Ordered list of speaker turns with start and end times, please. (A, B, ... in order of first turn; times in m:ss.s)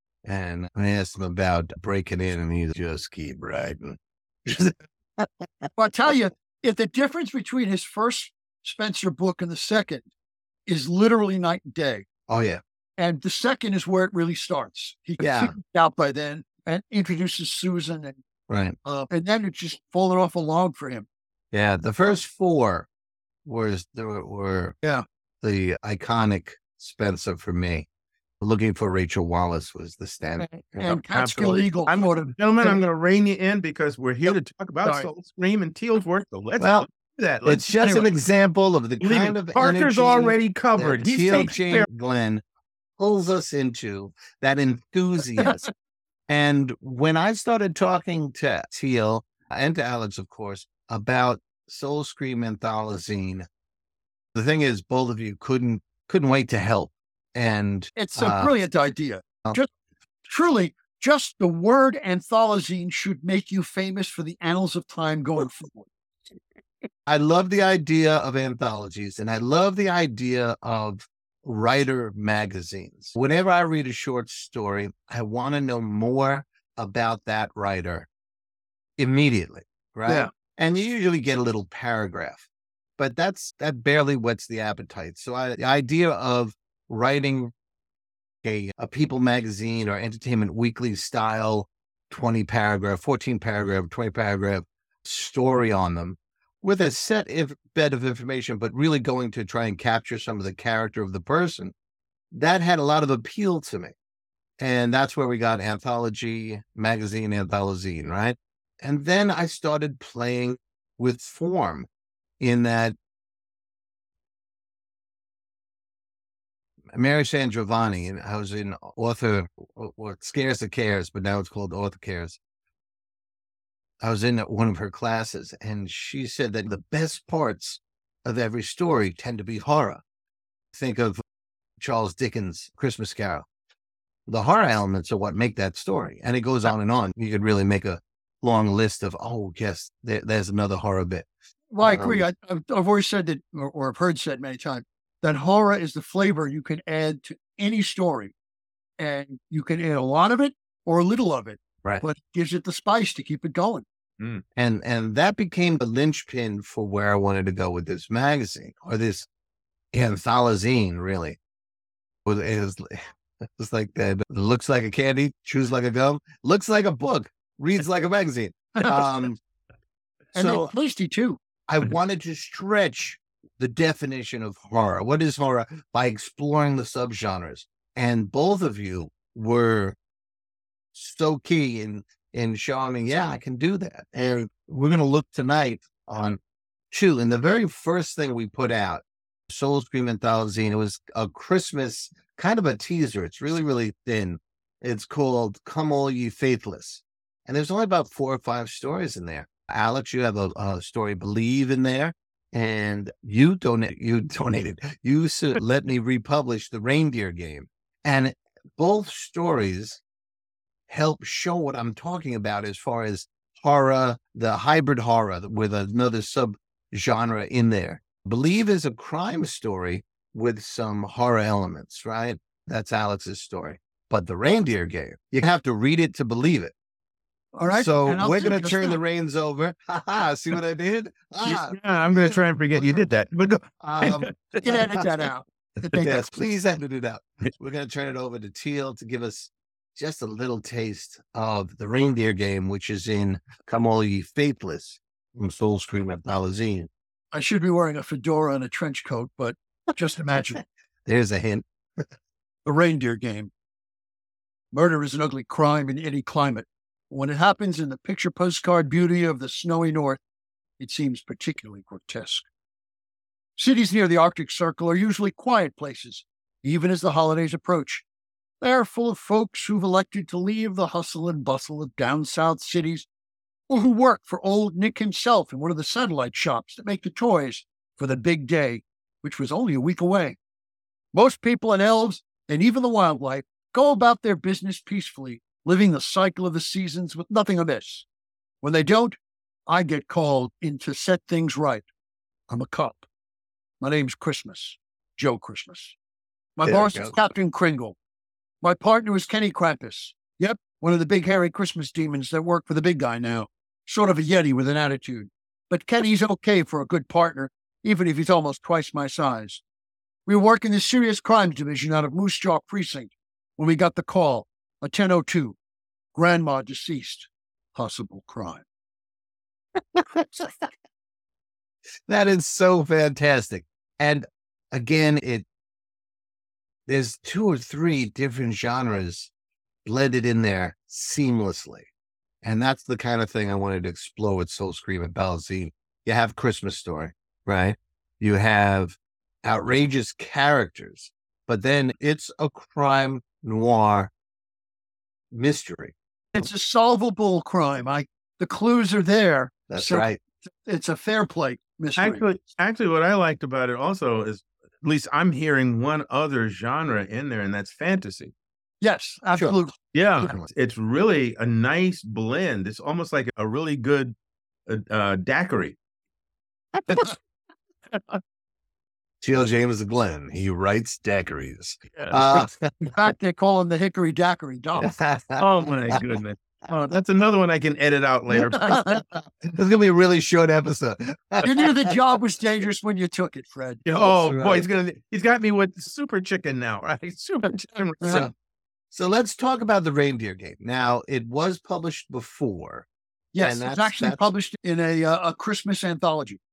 0:00.2-0:05.7 A
0:05.8-0:10.1 B
0:10.7-0:12.0 B
0:12.3-0:12.6 A
0:13.0-0:18.2 B
0:15.2-0:15.5 A
0:18.5-0:18.8 A
0:19.1-0:21.0 B
0:21.5-0:22.9 A
0:23.4-0:24.8 A
0:25.4-0:27.8 A
0:28.4-0:31.0 A
0:30.6-0:32.8 B
0:30.9-0:38.1 C
0:34.8-0:35.1 B
0:36.6-0:36.9 A
0:37.4-0:42.4 A
0:39.0-0:41.9 C
0:43.0-0:45.6 A
0:46.3-0:53.4 A
0:54.3-0:58.5 A
0:58.0-0:59.7 B
1:00.3-1:05.9 B
1:07.1-1:18.1 A
1:19.0-1:22.4 A
1:23.0-1:27.5 A
1:28.4-1:41.7 A
1:42.3-1:43.9 A
1:44.6-1:51.9 A
1:52.4-1:53.0 A
1:56.9-2:02.4 A
2:04.0-2:10.0 A
2:10.7-2:11.2 A
2:11.8-2:13.4 A
2:14.3-2:21.3 A
2:21.7-2:28.3 B
2:21.8-2:22.2 A
2:29.0-2:33.8 B
2:34.6-2:39.3 A
2:39.9-2:41.4 A
2:42.2-2:49.4 A
2:50.3-2:50.7 A
2:50.3-2:51.4 B
2:51.7-3:00.0 A
3:00.9-3:06.4 A
3:06.9-3:30.0 A
3:30.9-3:46.7 A
3:47.5-3:49.0 B
3:47.7-3:51.8 A
3:51.4-3:54.7 C
3:53.8-3:55.0 A
3:54.6-3:56.3 B
3:56.0-4:06.9 A
4:07.3-4:10.6 B
4:11.0-4:12.0 A
4:12.6-4:13.5 B
4:14.7-4:20.2 B
4:20.8-4:22.4 B
4:23.6-4:28.0 B
4:28.6-4:33.0 B
4:33.7-4:40.4 B
4:41.1-4:48.0 B
4:48.6-4:51.8 B
4:52.5-4:53.0 B
4:53.8-4:55.9 B
4:56.6-4:58.0 B
4:56.6-4:57.1 A
4:58.6-5:09.6 B
5:10.3-5:15.6 B
5:16.1-5:18.6 B
5:19.9-5:20.7 A
5:22.1-5:25.4 A
5:26.9-5:29.3 A
5:29.8-5:31.9 A
5:32.4-5:44.1 A
5:45.3-5:45.9 A
5:46.3-5:52.2 B
5:49.7-5:50.2 A
5:52.0-5:58.3 C
5:58.8-5:59.7 B
5:59.9-6:04.1 C
6:04.7-6:05.8 C
6:07.9-6:08.2 C
6:09.2-6:12.9 A
6:11.9-6:12.3 C
6:12.8-6:14.9 B
6:14.8-6:16.0 A
6:15.4-6:19.0 C
6:18.6-6:21.7 A
6:21.4-6:23.8 B
6:23.8-6:28.2 C
6:24.0-6:24.6 A
6:28.9-6:32.9 A
6:33.3-6:36.4 B
6:33.4-6:34.2 A